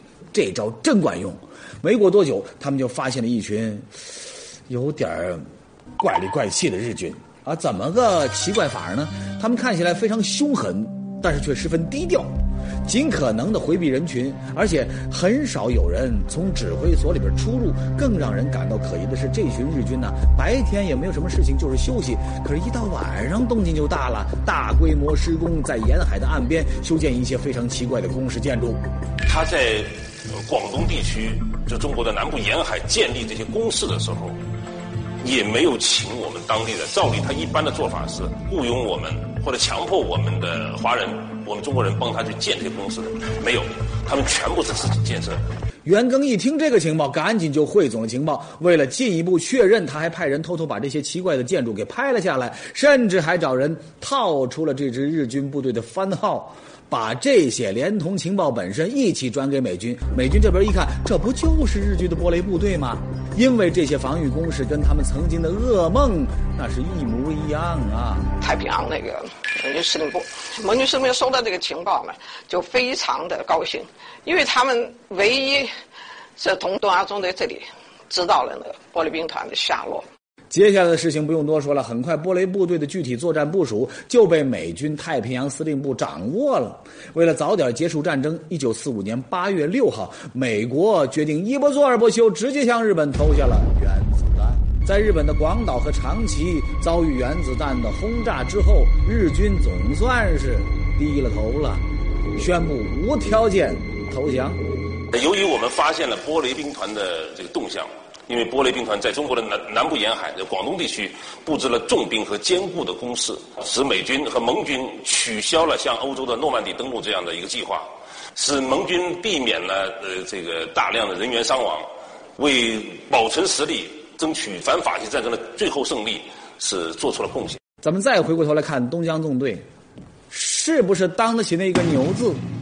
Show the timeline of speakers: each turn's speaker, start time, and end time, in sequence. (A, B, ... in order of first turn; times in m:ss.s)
0:00.3-0:03.9 A
0:04.7-0:05.5 A
0:06.0-0:12.3 A
0:12.8-0:28.8 A
0:29.2-0:34.4 B
0:35.2-0:45.4 B
0:45.8-1:08.3 A
1:08.4-1:15.7 C
1:16.4-1:20.0 C
1:20.5-1:41.8 A
1:42.4-1:44.6 A
1:45.1-2:01.9 B
2:02.4-2:07.6 B
2:07.8-2:09.6 A
2:10.3-2:12.4 A